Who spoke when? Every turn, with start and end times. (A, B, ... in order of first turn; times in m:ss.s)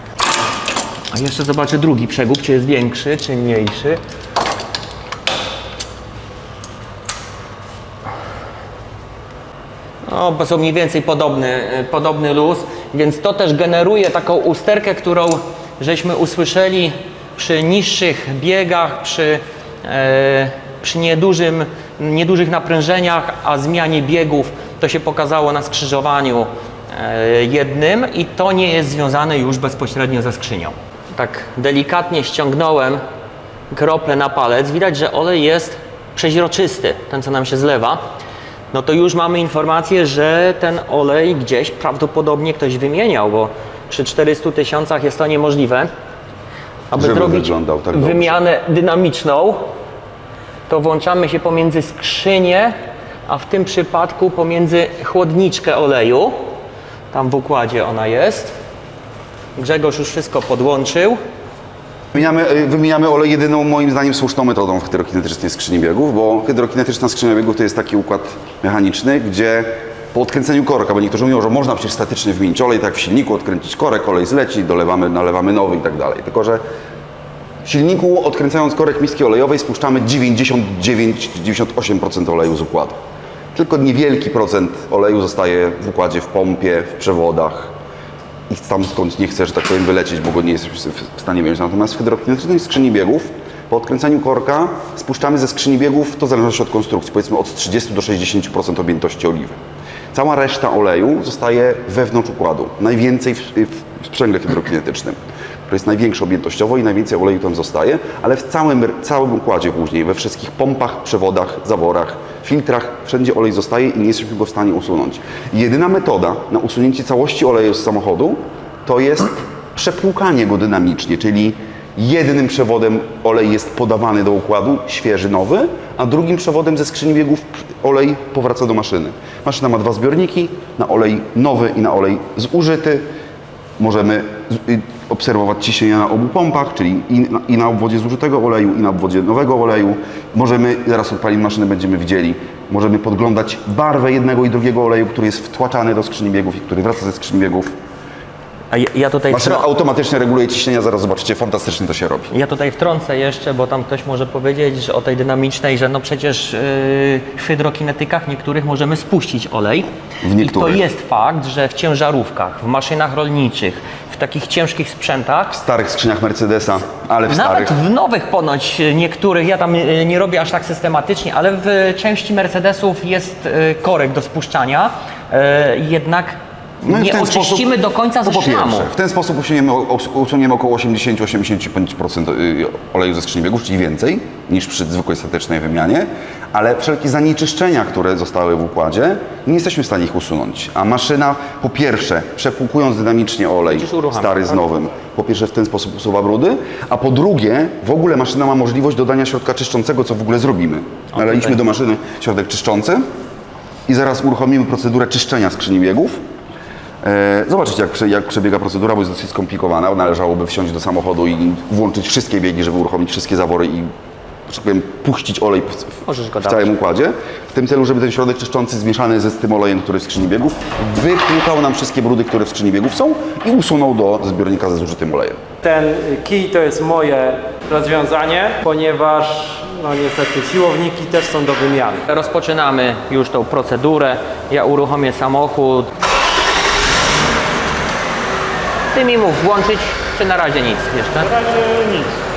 0:01.1-0:04.0 A
0:10.1-0:33.0 A
0:33.7-0:38.0 A
0:38.7-0:45.9 A
0:46.9-0:49.7 A
0:46.9-0:48.4 B
0:50.7-0:52.8 A
0:53.3-0:56.4 A
0:57.1-0:58.5 A
0:59.6-1:01.2 A
1:02.1-1:16.6 B
1:17.6-1:23.0 B
1:23.6-1:27.7 B
1:28.5-1:39.6 B
1:40.1-2:13.1 B
2:13.8-2:27.7 B
2:28.7-2:29.6 A
2:29.3-2:32.3 B
2:32.3-2:45.6 A
2:40.2-2:40.8 B
2:45.5-2:47.8 B
2:47.3-2:58.9 A
2:56.8-2:57.7 B
2:58.2-3:23.0 B
3:13.7-3:14.6 A
3:21.1-3:21.6 A
3:23.9-3:26.2 B
3:27.0-3:33.9 B
3:34.5-3:45.4 B
3:36.1-3:36.7 A
3:45.6-3:52.1 C
3:52.1-3:55.9 A
3:58.9-4:01.3 A